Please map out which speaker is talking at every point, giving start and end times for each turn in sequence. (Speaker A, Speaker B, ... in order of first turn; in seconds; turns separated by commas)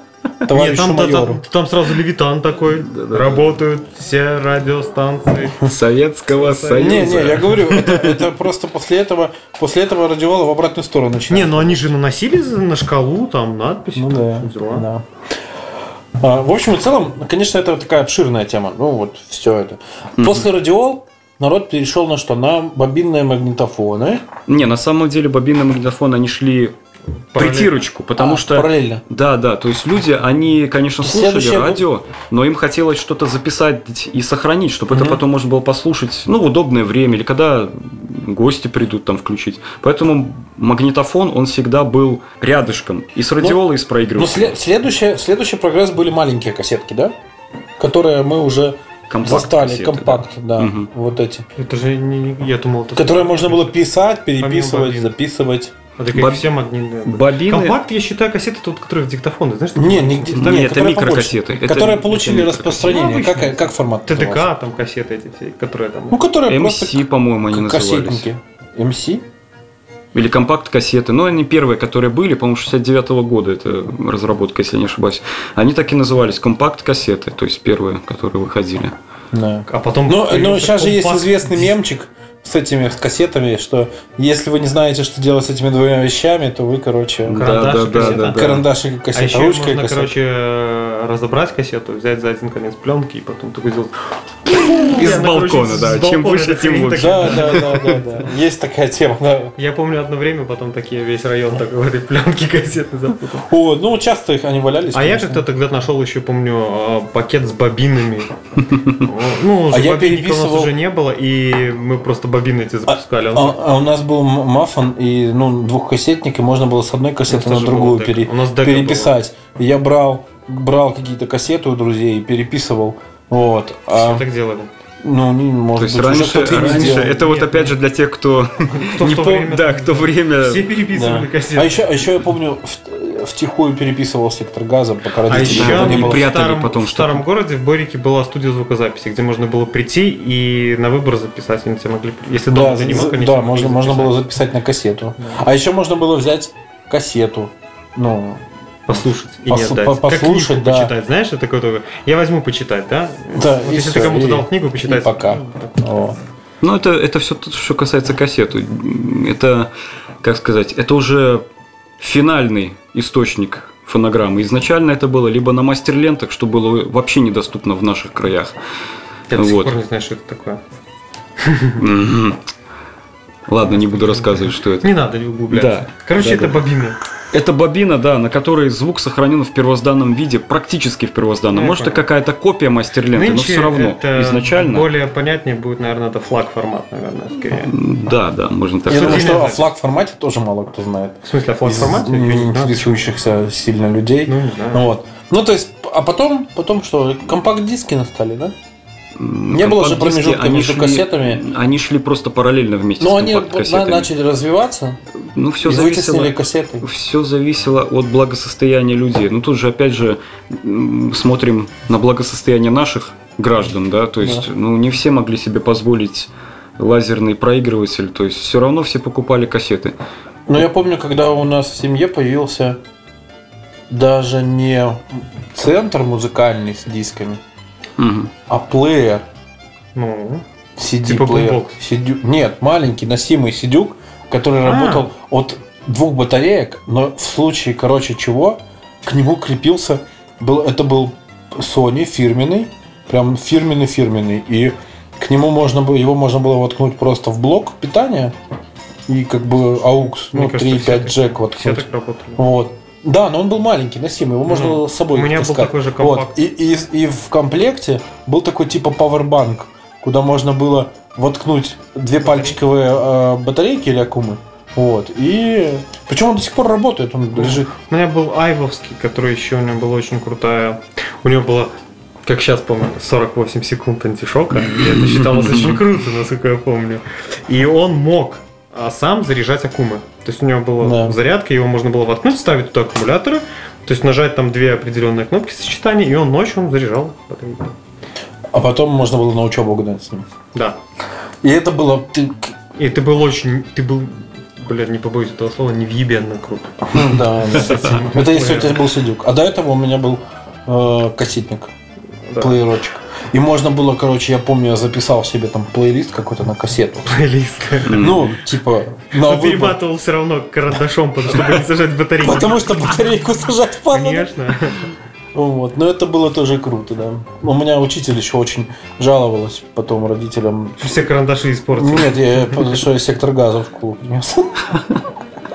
Speaker A: 0.4-1.4, Speaker B: 0.5-5.7, Speaker C: 2.8-3.5, Speaker C: 5.6-8.2, Speaker B: 6.4-7.3, Speaker A: 6.7-11.9, Speaker B: 11.3-14.9, Speaker A: 13.9-15.1, Speaker A: 16.2-24.2, Speaker C: 20.2-20.4, Speaker C: 24.5-26.7, Speaker B: 27.3-27.7, Speaker C: 27.3-44.6, Speaker A: 28.2-29.0, Speaker A: 31.0-31.8, Speaker A: 34.9-35.2, Speaker A: 44.1-47.1, Speaker A: 47.8-51.4, Speaker C: 49.1-50.9, Speaker B: 51.5-53.8, Speaker A: 52.9-55.7, Speaker B: 54.4-55.1, Speaker B: 56.0-60.7, Speaker C: 56.1-56.5, Speaker C: 57.0-57.8, Speaker A: 59.7-64.5, Speaker C: 60.3-63.0, Speaker B: 62.9-66.2, Speaker A: 66.1-69.2, Speaker C: 66.5-68.3, Speaker C: 70.1-78.9, Speaker A: 79.3-90.1, Speaker B: 79.7-81.7, Speaker C: 87.2-88.7, Speaker B: 87.3-88.4, Speaker B: 89.1-93.9, Speaker B: 94.5-97.8, Speaker C: 94.5-98.0, Speaker A: 97.0-99.5, Speaker B: 99.5-103.5, Speaker A: 103.4-105.4, Speaker B: 104.9-108.3, Speaker B: 108.9-113.6, Speaker A: 109.7-110.7, Speaker A: 112.9-124.2, Speaker B: 117.3-119.2, Speaker B: 123.9-124.7, Speaker A: 125.0-127.2, Speaker C: 125.8-130.7, Speaker B: 126.5-127.7, Speaker B: 128.7-131.9, Speaker A: 130.9-136.3, Speaker B: 135.3-144.2, Speaker C: 135.3-137.2, Speaker A: 142.5-150.9, Speaker B: 148.9-156.0, Speaker A: 153.3-156.2, Speaker C: 156.6-159.7, Speaker C: 160.2-161.4, Speaker C: 162.0-168.6, Speaker B: 169.3-170.6, Speaker C: 169.3-169.8, Speaker B: 171.4-171.8, Speaker C: 171.8-172.4, Speaker C: 173.5-174.9, Speaker B: 173.6-177.0, Speaker C: 175.5-176.6, Speaker C: 177.3-184.9, Speaker B: 181.5-182.0, Speaker B: 183.1-187.7, Speaker C: 187.5-189.4, Speaker A: 188.9-198.5, Speaker B: 188.9-189.7, Speaker B: 191.2-193.0, Speaker B: 194.2-194.9, Speaker C: 199.2-204.1, Speaker A: 199.5-201.4, Speaker A: 203.0-205.0, Speaker C: 205.2-219.9, Speaker A: 205.6-206.8, Speaker A: 214.2-214.4, Speaker A: 220.5-222.8, Speaker A: 223.9-227.4, Speaker C: 228.0-228.3, Speaker A: 228.5-229.2, Speaker B: 229.9-230.4, Speaker A: 230.8-248.3, Speaker B: 231.0-231.8, Speaker B: 234.6-235.1, Speaker A: 249.1-267.7, Speaker B: 250.2-252.4, Speaker B: 254.5-256.4, Speaker B: 262.2-262.6, Speaker B: 267.3-271.7, Speaker B: 272.2-287.7, Speaker C: 274.7-275.8, Speaker A: 280.8-281.2, Speaker A: 288.5-290.2, Speaker A: 291.4-292.6, Speaker B: 292.8-298.8, Speaker A: 296.9-301.7, Speaker B: 302.3-302.6, Speaker A: 302.4-307.1, Speaker B: 307.1-308.2, Speaker C: 307.9-308.3, Speaker A: 307.9-309.8, Speaker B: 309.1-313.0, Speaker A: 312.2-314.3, Speaker B: 313.9-314.9, Speaker A: 315.3-321.0, Speaker B: 320.8-322.7, Speaker A: 321.8-324.7, Speaker C: 324.7-325.0